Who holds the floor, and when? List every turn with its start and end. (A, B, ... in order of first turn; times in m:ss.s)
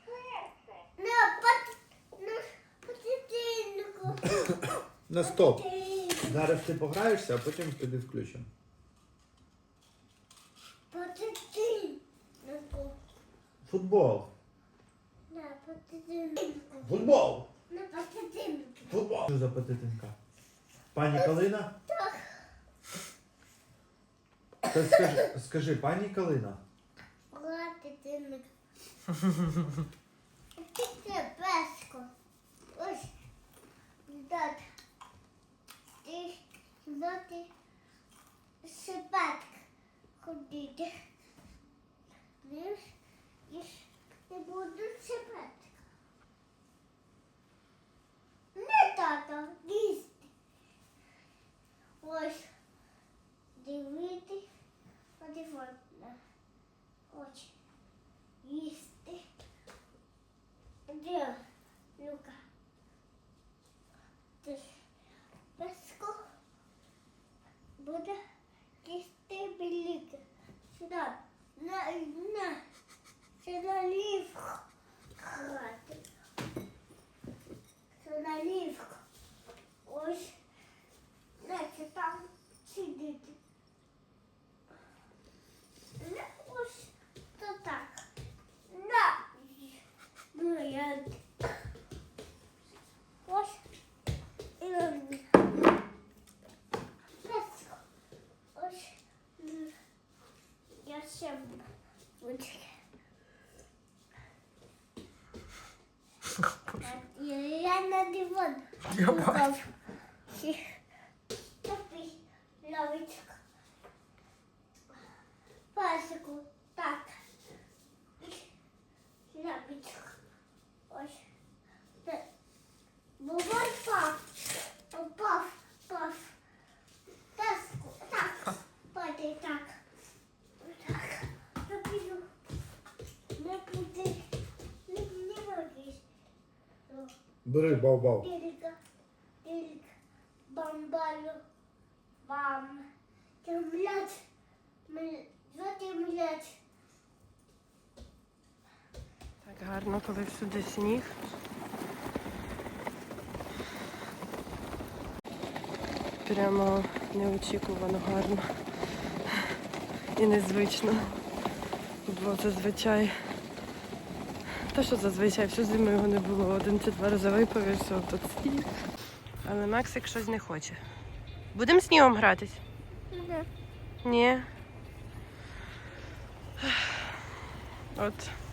0:01.0-0:06.4 A
0:05.1-0:05.6 B
0:06.2-0:08.5 B
0:10.9-0:13.0 A
0:13.6-0:14.3 B
0:15.3-0:17.0 A
0:16.8-0:17.5 B
0:17.7-0:19.0 A
0:18.9-0:20.2 B
0:20.9-0:21.7 B
0:21.9-0:22.3 A
0:24.7-0:26.6 B
0:27.3-0:28.5 A
0:30.6-0:32.1 A
0:32.7-0:33.1 A
0:34.1-0:34.6 A
0:36.0-0:37.5 A
0:38.6-0:39.6 A
0:40.2-0:40.9 A
0:42.4-0:42.8 A
0:43.5-0:45.8 A
0:48.6-0:50.3 A
0:52.0-0:52.5 A
0:53.6-0:54.4 A
0:55.2-0:56.2 A
0:57.1-0:57.5 A
0:58.4-0:59.2 A
1:00.9-1:01.4 A
1:02.0-1:02.4 A
1:04.4-1:04.8 A
1:05.6-1:06.2 A
1:07.8-1:08.2 A
1:08.8-1:10.2 A
1:10.7-1:12.6 A
1:13.4-1:14.6 A
1:15.2-1:16.0 A
1:18.0-1:19.0 A
1:19.8-1:20.4 A
1:21.4-1:23.4 A
1:26.0-1:28.0 A
1:28.7-1:29.8 A
1:30.3-1:31.5 A
1:33.3-1:33.6 A
1:34.6-1:35.4 A
1:37.2-1:37.8 A
1:38.6-1:39.7 A
1:40.8-1:41.7 A
1:42.2-1:42.8 A
1:46.5-1:46.8 C
1:46.8-1:49.7 A
1:49.1-1:49.4 C
1:50.3-1:50.7 A
1:51.6-1:53.4 A
1:55.7-1:57.2 A
1:58.2-1:58.5 A
1:59.3-2:00.2 A
2:00.9-2:01.2 A
2:03.2-2:06.3 A
2:07.4-2:09.8 A
2:10.6-2:12.3 A
2:13.4-2:14.2 A
2:14.9-2:16.0 A
2:16.9-2:18.8 A
2:17.4-2:18.2 B
2:19.4-2:19.9 A
2:20.5-2:21.4 A
2:22.2-2:22.9 A
2:23.4-2:24.2 A
2:24.9-2:26.6 A
2:29.4-2:31.2 C
2:36.2-2:38.5 C
2:39.3-2:39.6 C
2:40.2-2:41.2 C
2:42.0-2:43.2 C
2:44.6-2:48.7 C
2:49.4-2:50.8 C
2:51.5-2:52.6 C
2:53.1-2:53.5 A
2:54.0-2:54.5 C
2:56.6-2:57.1 C
2:57.9-2:58.4 C